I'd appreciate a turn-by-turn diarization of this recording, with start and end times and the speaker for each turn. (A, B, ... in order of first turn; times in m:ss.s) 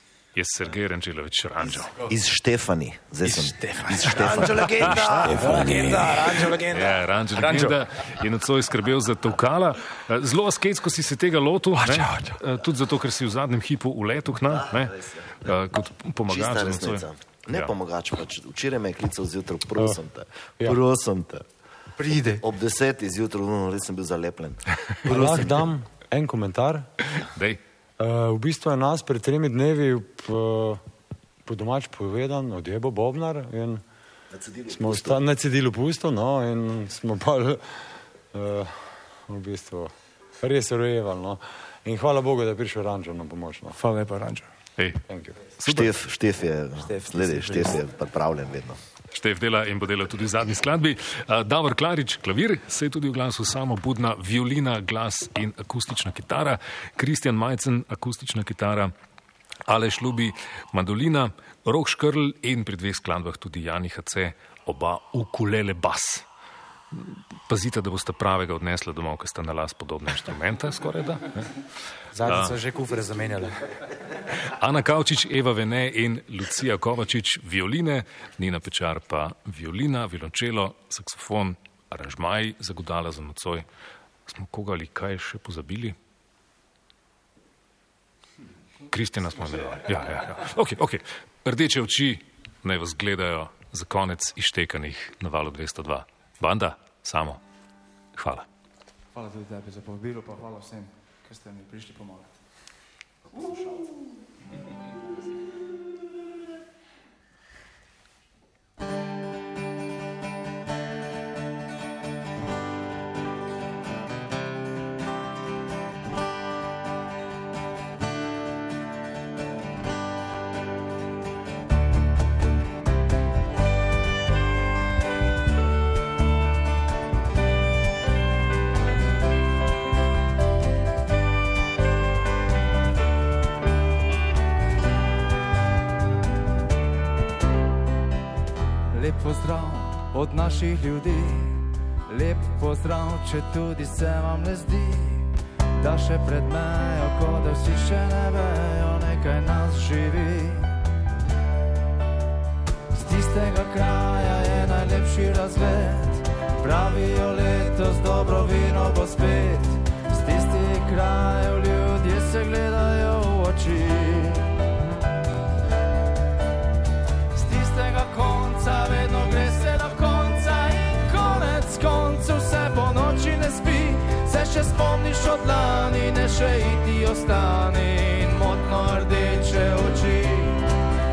0:00.4-0:02.0 A
0:02.1-0:06.2 B
0:03.9-0:07.0 C
0:06.7-0:17.7 A
0:11.8-0:12.4 C
0:14.5-0:15.5 B
0:16.3-0:21.5 B
0:22.0-0:22.4 D
0:22.4-0:25.2 B
0:25.0-0:26.9 E
0:25.1-0:25.5 D
0:27.3-0:27.6 A
0:28.0-0:30.8 E
0:31.5-0:33.8 E
0:34.3-0:35.2 B
0:34.7-0:37.6 E
0:38.3-0:43.8 E
0:43.7-0:44.5 D
0:44.8-0:45.0 A
0:45.1-0:45.4 E
0:45.6-0:46.0 A
0:45.6-0:48.8 B
0:46.8-0:47.8 D
0:49.1-0:58.9 A
0:59.7-1:06.2 A
1:06.9-1:11.6 A
1:12.1-1:13.6 C
1:12.2-1:12.6 A
1:14.4-1:23.6 A
1:24.3-1:26.0 A
1:28.9-1:37.4 A
1:38.2-1:38.5 A
1:39.1-1:42.4 D
2:18.9-2:30.8 D
2:32.9-2:44.5 D
2:47.3-3:00.6 D